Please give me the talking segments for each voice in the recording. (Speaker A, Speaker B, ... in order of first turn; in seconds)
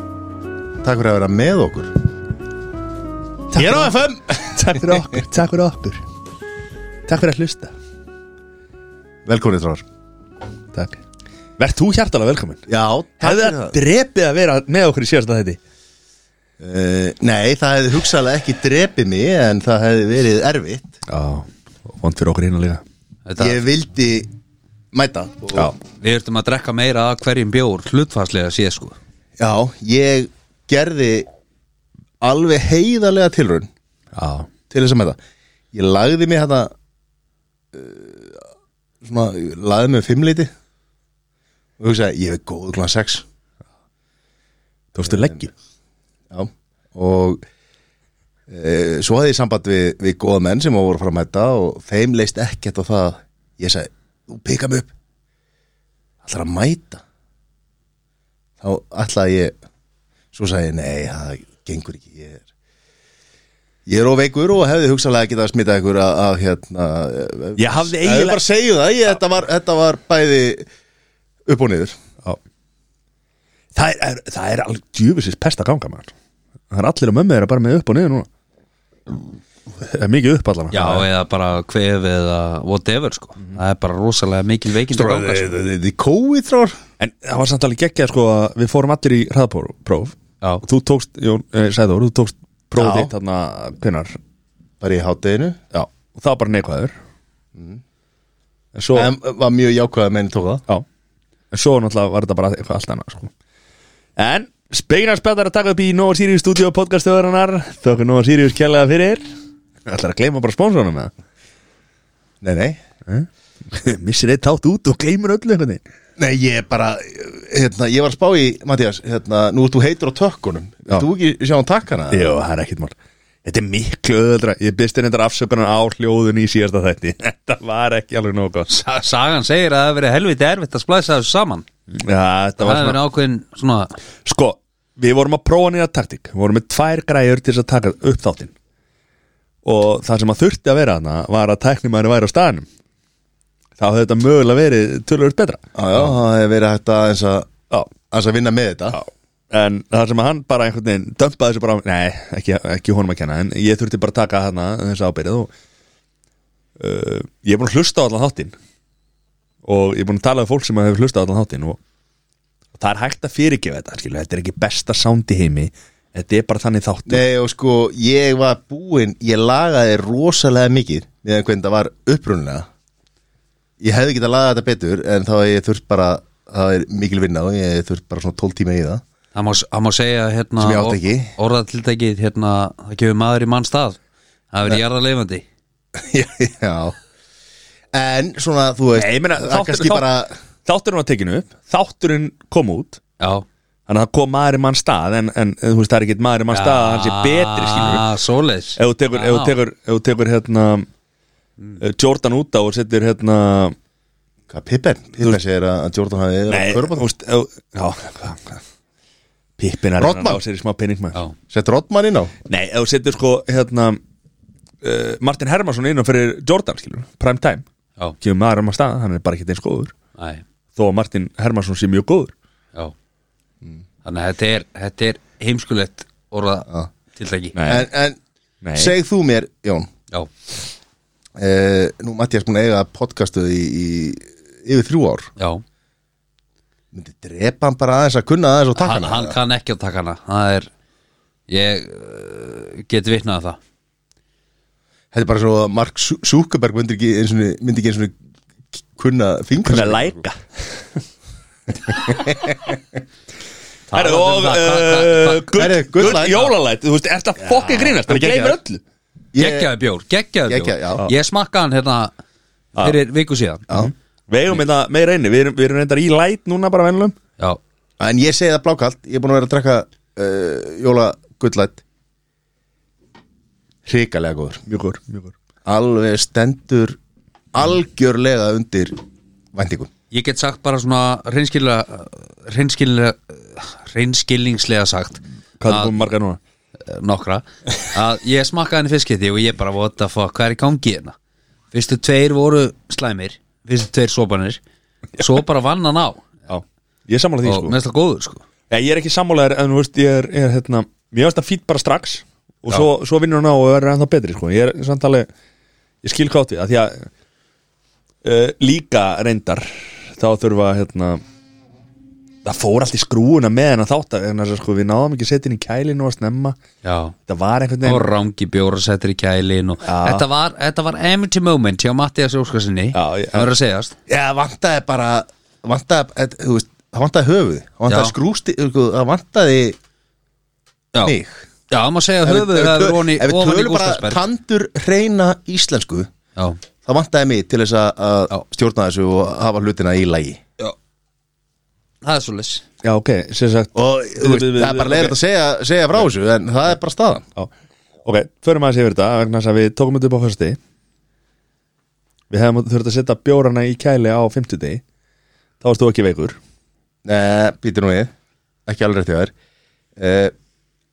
Speaker A: 0.8-1.9, 3.5-5.2, 9.2-9.8, 12.7-13.8, 16.6-21.0, 23.4-24.3, 24.9-25.7, 29.4-31.3, 32.2-33.7, 34.7-35.2, 35.7-36.7, 37.7-38.4, 39.0-40.5, 41.8-43.2, 45.0-45.4, 46.3-47.4, 48.5-54.9, 56.2-57.0, 58.6-59.5, 60.3-62.4, 63.9-70.7, 71.5-72.0, 84.9-86.8, 92.8-93.1, 94.8-95.6, 98.9-100.6, 112.4-112.8, 116.2-122.3, 145.7-147.6, 148.1-149.0, 167.1-172.7, 173.8-179.0, 180.6-181.3, 185.9-186.9, 187.9-190.3, 204.5-207.1, 210.0-210.4, 211.5-212.3, 227.7-228.2, 228.8-229.9, 231.4-235.3, 236.9-239.3, 245.1-248.1, 248.7-250.2, 252.1-252.8, 255.5-256.5, 257.5-258.6, 259.3-259.7, 260.5-261.0, 268.0-271.8, 273.9-274.6, 275.6-277.0, 277.5-279.0, 279.5-279.9, 324.1-329.8, 331.0-331.4, 332.2-336.1, 336.8-340.4, 343.7-347.2, 357.0-358.1, 358.7-359.3, 360.0-360.3
Speaker B: 3.5-6.0, 7.0-7.7, 10.7-11.0, 11.6-12.7, 13.2-15.6, 21.1-22.8, 34.1-34.5, 44.9-45.5, 67.5-68.4, 73.7-76.1, 76.7-78.3, 79.8-81.0, 87.0-94.2, 95.7-96.9, 98.7-99.1, 101.5-103.3, 104.2-109.2, 109.8-111.1, 113.1-115.8, 122.1-128.7, 131.9-133.0, 134.2-138.5, 139.6-142.7, 143.8-146.2, 148.9-155.5, 156.8-158.5, 159.6-161.8, 162.8-167.2, 188.9-190.1, 190.6-193.0, 193.9-198.0, 198.8-200.9, 201.8-203.8, 206.5-208.6, 209.6-211.2, 212.4-214.0, 214.8-217.6, 218.2-219.9, 220.8-222.3, 227.5-227.9, 228.6-228.9, 249.6-251.0, 251.9-252.3, 253.9-258.8, 263.7-267.1, 274.7-275.3, 285.6-286.4, 296.5-297.8, 298.7-305.3, 306.0-307.1, 308.2-311.2, 312.4-316.6, 317.3-318.1, 319.8-320.2, 322.9-323.5, 342.8-345.1, 348.0-350.6, 352.3-354.8, 355.6-356.4
Speaker C: 23.3-23.6, 26.0-28.9, 80.7-85.5, 128.7-131.6, 132.6-133.9, 179.3-184.0, 184.5-185.4, 193.2-193.4, 196.5-199.6, 220.2-220.4, 224.0-227.6, 235.4-235.6, 238.8-240.7, 241.5-243.6, 253.9-256.4, 259.4-262.1, 262.8-263.6, 280.1-286.0, 286.8-291.1, 291.7-294.6, 295.2-296.3, 297.4-298.4, 316.8-317.1, 317.8-323.9, 327.9-328.1, 331.7-334.2, 342.0-342.6